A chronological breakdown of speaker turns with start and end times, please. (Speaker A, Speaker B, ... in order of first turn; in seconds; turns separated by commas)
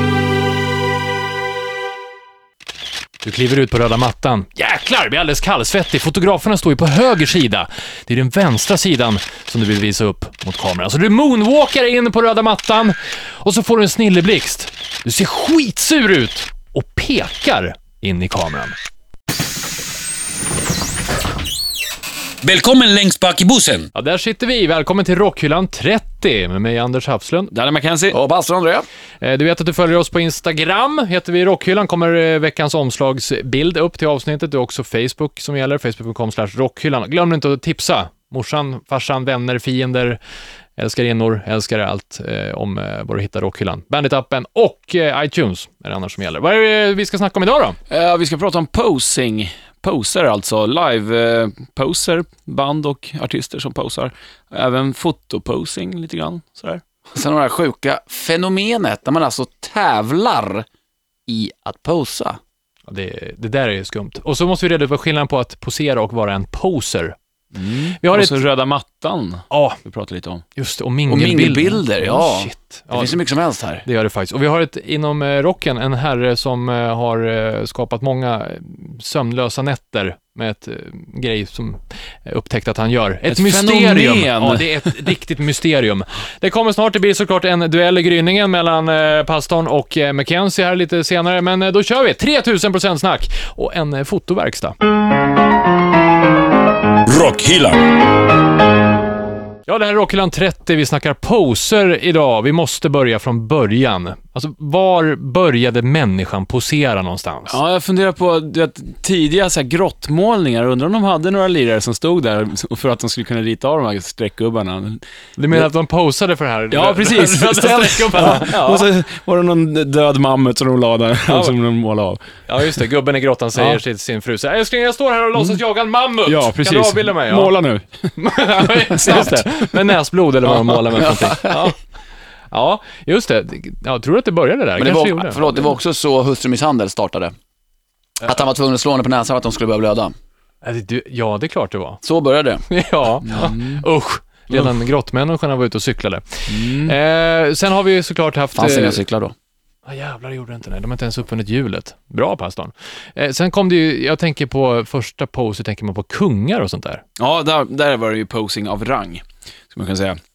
Speaker A: 3.2-18.7, Speaker B: 22.4-23.9, Speaker A: 23.9-27.5, Speaker C: 27.5-28.2, Speaker D: 28.1-28.9, Speaker A: 29.2-40.2, Speaker A: 40.8-47.8, Speaker C: 47.9-56.8, Speaker D: 57.1-60.7, Speaker D: 61.3-62.4, Speaker A: 62.9-67.2, Speaker C: 67.5-70.4, Speaker A: 68.0-68.4, Speaker A: 69.5-69.8, Speaker A: 70.6-73.2, Speaker D: 71.1-73.8, Speaker A: 73.8-94.8, Speaker C: 83.3-85.0, Speaker B: 97.1-97.9, Speaker A: 99.7-107.6, Speaker C: 107.5-115.7, Speaker A: 115.4-118.9, Speaker C: 116.7-122.8, Speaker A: 121.3-121.6, Speaker A: 122.5-127.5, Speaker C: 123.6-123.8, Speaker C: 126.3-129.6, Speaker A: 128.2-131.8, Speaker C: 130.5-130.8, Speaker D: 130.9-131.7, Speaker A: 132.5-135.4, Speaker D: 134.8-137.3, Speaker D: 138.2-140.1, Speaker A: 140.6-142.0, Speaker D: 142.0-142.6, Speaker A: 142.7-149.0, Speaker C: 143.2-143.8, Speaker C: 146.5-146.9, Speaker D: 148.6-149.3, Speaker A: 149.9-157.0, Speaker C: 157.2-160.2